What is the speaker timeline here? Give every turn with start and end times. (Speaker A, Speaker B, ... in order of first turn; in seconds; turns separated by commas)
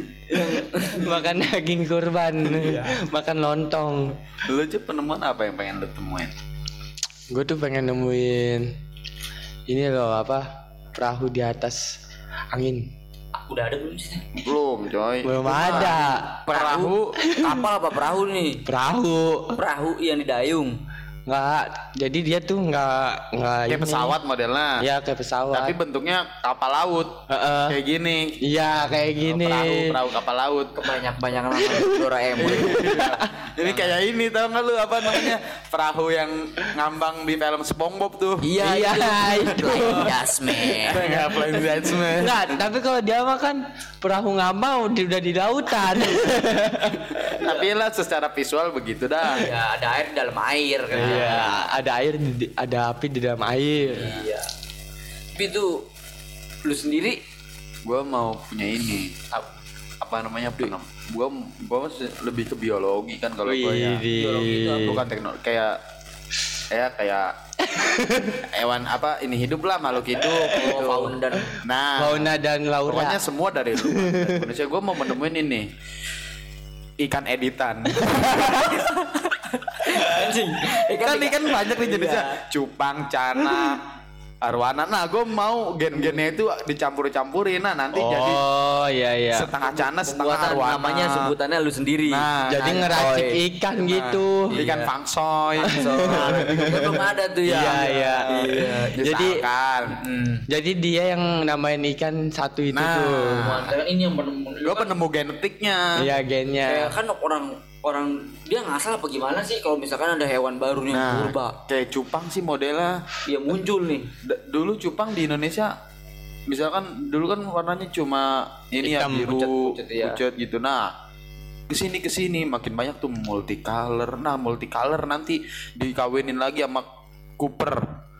Speaker A: 0.3-1.2, Speaker B: 1.0-4.2, Speaker A: 2.5-3.0, Speaker C: 4.4-6.3, Speaker B: 7.3-8.7, Speaker B: 9.7-12.0, Speaker B: 12.5-12.9, Speaker A: 13.3-14.3, Speaker C: 14.4-17.2, Speaker B: 15.2-16.3, Speaker A: 15.7-16.0, Speaker A: 16.5-18.6, Speaker B: 17.2-17.7, Speaker B: 18.6-19.6, Speaker A: 19.6-20.8, Speaker B: 21.3-24.1, Speaker C: 23.7-24.8, Speaker B: 24.8-25.8, Speaker C: 25.5-28.4, Speaker B: 27.3-27.8, Speaker B: 28.4-30.0, Speaker C: 29.2-30.8, Speaker A: 30.8-33.0, Speaker B: 31.5-33.4, Speaker C: 32.4-38.5, Speaker A: 33.6-33.9, Speaker A: 38.4-41.3, Speaker B: 38.6-40.3, Speaker C: 39.6-42.6, Speaker B: 40.9-41.4, Speaker B: 41.9-47.4, Speaker C: 47.1-49.5, Speaker A: 49.3-51.6, Speaker B: 50.9-54.2, Speaker C: 51.0-51.4, Speaker A: 53.8-54.5, Speaker A: 55.3-55.8, Speaker A: 56.6-57.2, Speaker C: 57.8-59.2, Speaker C: 60.0-64.0, Speaker B: 63.5-65.0, Speaker A: 64.1-65.0, Speaker C: 64.8-65.8, Speaker C: 66.7-67.3, Speaker B: 67.7-68.4, Speaker C: 68.4-72.3, Speaker A: 70.4-71.6, Speaker B: 72.0-73.2, Speaker C: 72.8-75.7, Speaker B: 73.8-74.5, Speaker C: 77.0-78.9, Speaker B: 78.1-78.8, Speaker A: 78.5-82.4, Speaker B: 79.9-80.3, Speaker C: 81.0-83.9, Speaker C: 84.4-88.4, Speaker B: 87.9-89.5, Speaker C: 89.3-91.3, Speaker A: 90.0-93.4, Speaker C: 92.1-93.1, Speaker B: 92.5-94.7, Speaker C: 93.8-96.9, Speaker A: 94.5-94.9, Speaker A: 95.6-99.0, Speaker B: 95.7-99.4, Speaker C: 97.5-100.0, Speaker A: 99.9-100.5, Speaker B: 100.5-103.6, Speaker C: 102.7-103.7, Speaker A: 103.3-105.0, Speaker C: 104.6-106.1, Speaker B: 106.0-106.9, Speaker A: 106.7-111.5, Speaker C: 110.9-113.0, Speaker A: 113.2-114.1, Speaker C: 114.2-115.7, Speaker C: 116.5-120.9, Speaker B: 118.9-119.3, Speaker A: 118.9-120.2, Speaker C: 121.7-126.8, Speaker C: 127.4-127.9